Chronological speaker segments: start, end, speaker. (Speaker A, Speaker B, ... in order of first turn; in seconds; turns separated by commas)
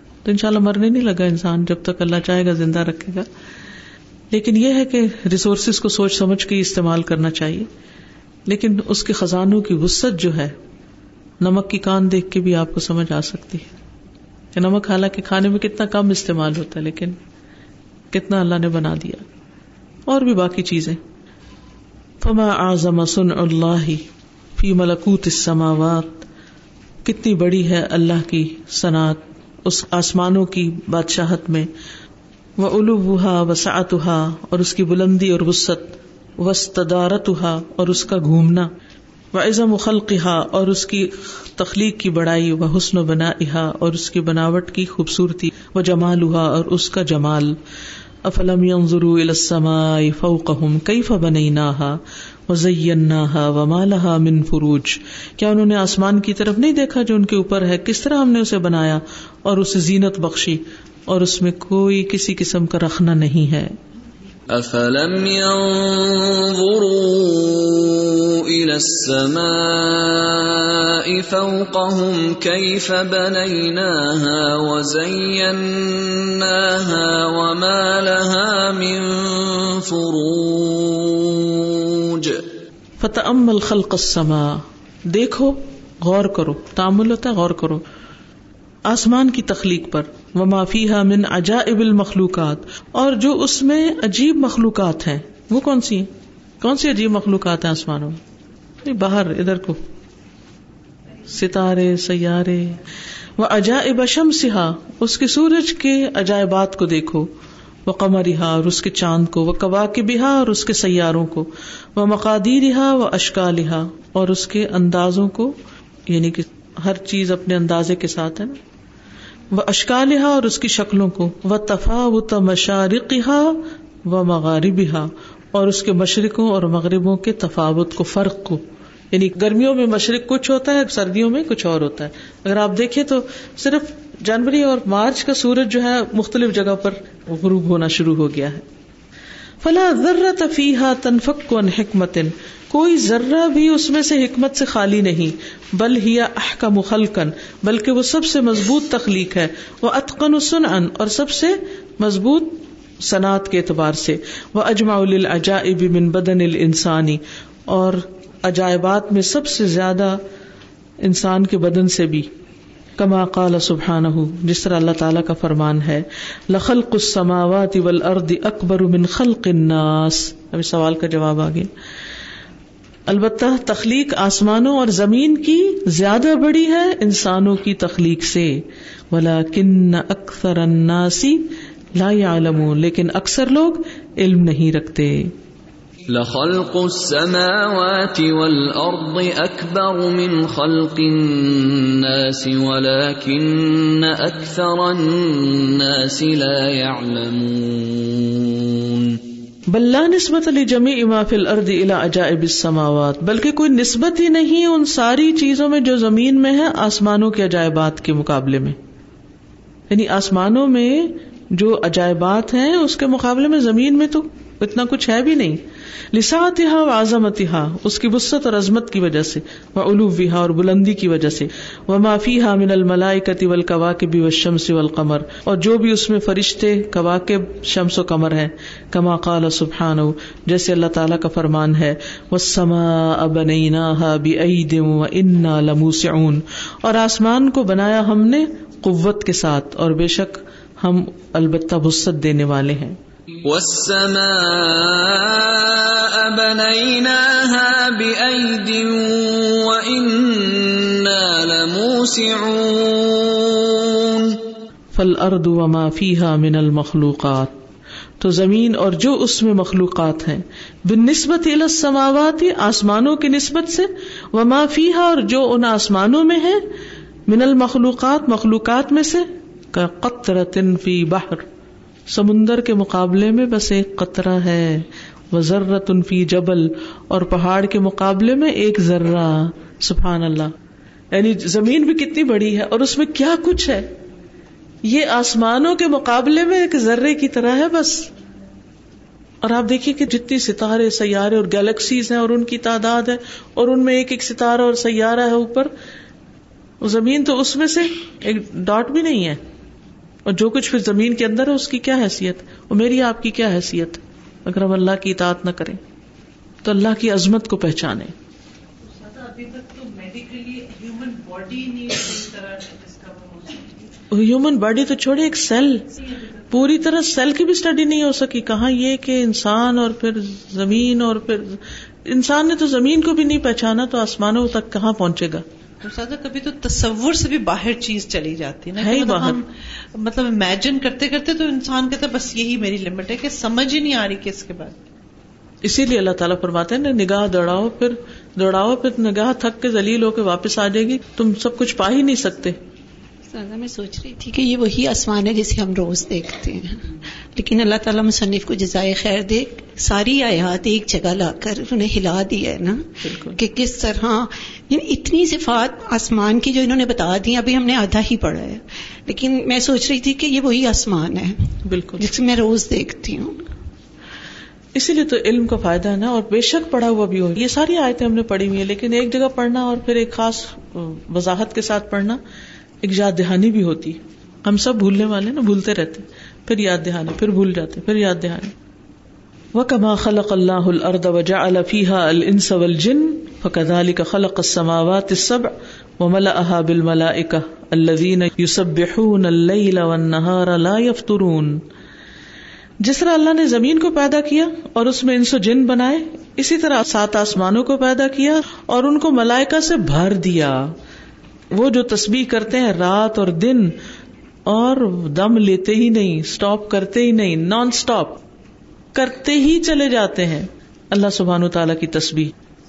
Speaker A: 0.2-3.3, Speaker A: 4.3-7.7, Speaker A: 8.5-10.5, Speaker A: 11.4-13.7, Speaker A: 14.6-17.2, Speaker A: 18.1-19.2, Speaker A: 20.1-21.0, Speaker A: 22.2-24.0, Speaker A: 24.6-26.2, Speaker A: 27.0-31.7, Speaker A: 32.6-38.7, Speaker A: 39.3-47.5, Speaker A: 48.2-63.7, Speaker B: 64.5-82.4, Speaker A: 83.0-87.8, Speaker A: 88.9-96.1, Speaker A: 96.6-98.2, Speaker A: 98.8-99.8, Speaker A: 101.3-102.8, Speaker A: 103.4-107.3, Speaker A: 107.8-115.5, Speaker A: 116.1-118.6, Speaker A: 119.5-138.6, Speaker A: 139.6-160.2, Speaker A: 161.0-162.3, Speaker A: 163.0-171.7, Speaker A: 173.1-178.5, Speaker A: 179.1-181.4, Speaker A: 181.9-185.3, Speaker B: 186.1-199.2, Speaker A: 199.7-208.8, Speaker A: 209.9-215.6, Speaker A: 216.1-243.0, Speaker B: 243.4-254.4, Speaker A: 254.9-257.5, Speaker A: 258.2-266.6, Speaker A: 267.3-271.4, Speaker A: 272.1-280.5, Speaker A: 281.1-283.9, Speaker A: 284.8-288.1, Speaker A: 289.4-295.7, Speaker A: 296.8-299.4, Speaker A: 300.2-305.8, Speaker A: 306.6-308.1, Speaker C: 308.8-313.9, Speaker A: 314.1-315.9, Speaker A: 316.5-325.4, Speaker C: 325.8-334.7, Speaker A: 328.8-329.4, Speaker A: 335.6-342.6, Speaker D: 343.3-361.4, Speaker A: 353.0-353.4, Speaker A: 361.6-362.1, Speaker D: 362.0-363.5, Speaker A: 364.7-372.2, Speaker A: 372.8-378.5, Speaker A: 379.5-391.6, Speaker A: 392.8-400.6, Speaker A: 401.5-403.8, Speaker A: 404.5-408.2, Speaker A: 408.9-412.3